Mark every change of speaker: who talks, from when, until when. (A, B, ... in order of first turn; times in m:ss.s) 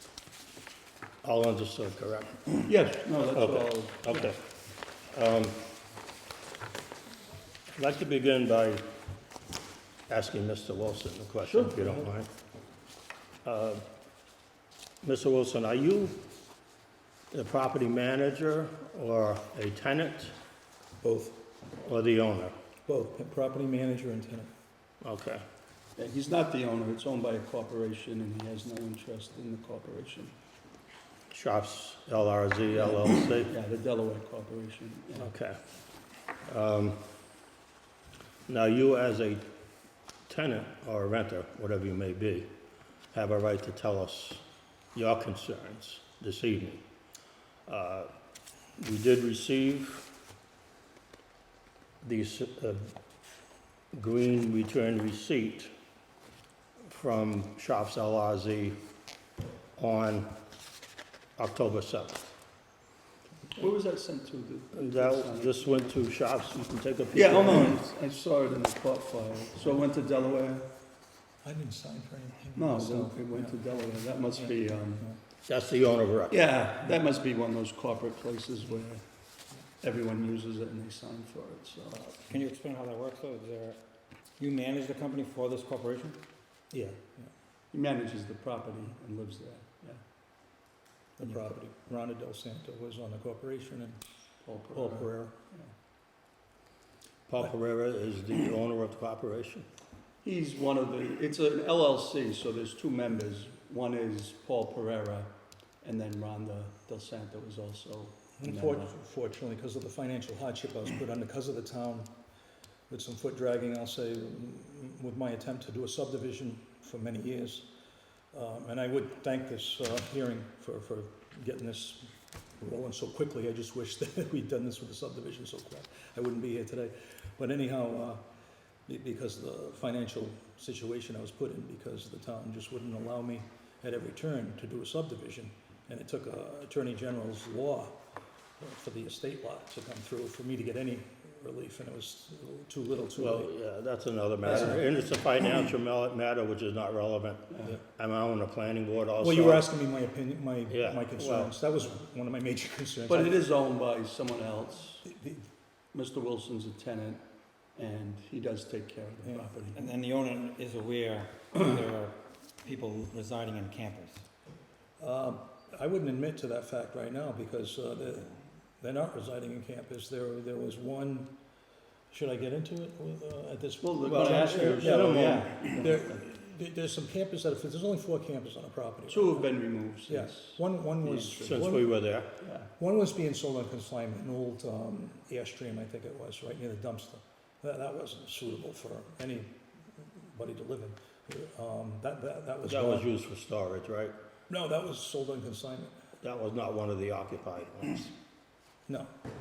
0:01.2-0:02.7 A
0:02.6-0:04.4 B
0:03.3-0:04.4 A
0:05.1-0:05.6 A
0:07.7-0:08.8 A
0:10.1-0:12.3 A
0:11.5-0:11.8 B
0:11.7-0:12.1 C
0:13.4-0:13.8 A
0:15.0-0:16.2 A
0:17.3-0:20.4 A
0:21.0-0:21.4 C
0:21.8-0:22.6 A
0:22.9-0:24.5 C
0:25.0-0:25.4 A
0:26.0-0:30.3 B
0:31.3-0:33.5 A
0:32.7-0:35.3 B
0:35.2-0:35.6 A
0:36.4-0:37.0 A
0:38.5-0:39.4 A
0:40.3-0:42.5 A
0:43.1-0:44.4 A
0:45.0-0:46.8 A
0:47.7-0:48.1 A
0:48.8-0:50.1 A
0:52.0-0:52.9 A
0:53.9-0:55.7 A
0:56.9-0:58.8 A
0:59.8-1:00.3 A
1:01.4-1:02.3 A
1:03.6-1:05.9 B
1:04.7-1:07.8 A
1:07.1-1:10.7 B
1:11.4-1:15.2 C
1:12.6-1:15.1 B
1:15.4-1:16.5 A
1:16.3-1:19.0 B
1:19.8-1:22.1 B
1:22.1-1:23.8 D
1:24.4-1:26.2 D
1:26.7-1:27.3 C
1:27.7-1:30.0 B
1:31.2-1:34.0 C
1:34.4-1:35.7 B
1:34.7-1:35.4 C
1:37.3-1:39.7 A
1:40.2-1:45.3 B
1:45.8-1:48.9 B
1:48.4-1:52.1 C
1:52.9-1:57.7 C
1:58.3-2:08.2 C
2:08.9-2:18.0 C
2:18.6-2:23.5 C
2:23.2-2:29.7 A
2:24.4-2:24.8 C
2:27.5-2:27.8 B
2:29.2-2:33.4 C
2:30.7-2:31.6 A
2:33.1-2:35.0 B
2:35.0-2:35.5 C
2:35.9-2:37.2 B
2:37.8-2:39.8 B
2:39.2-2:39.6 C
2:39.7-2:44.3 D
2:45.0-2:51.3 C
2:52.1-3:02.1 C
2:53.8-2:56.2 B
2:54.1-2:55.7 A
2:59.1-3:01.6 B
3:01.4-3:02.3 A
3:02.4-3:02.7 B
3:02.7-3:13.1 C
3:12.6-3:14.2 A
3:14.5-3:15.9 C
3:16.2-3:18.1 A
3:18.9-3:19.1 C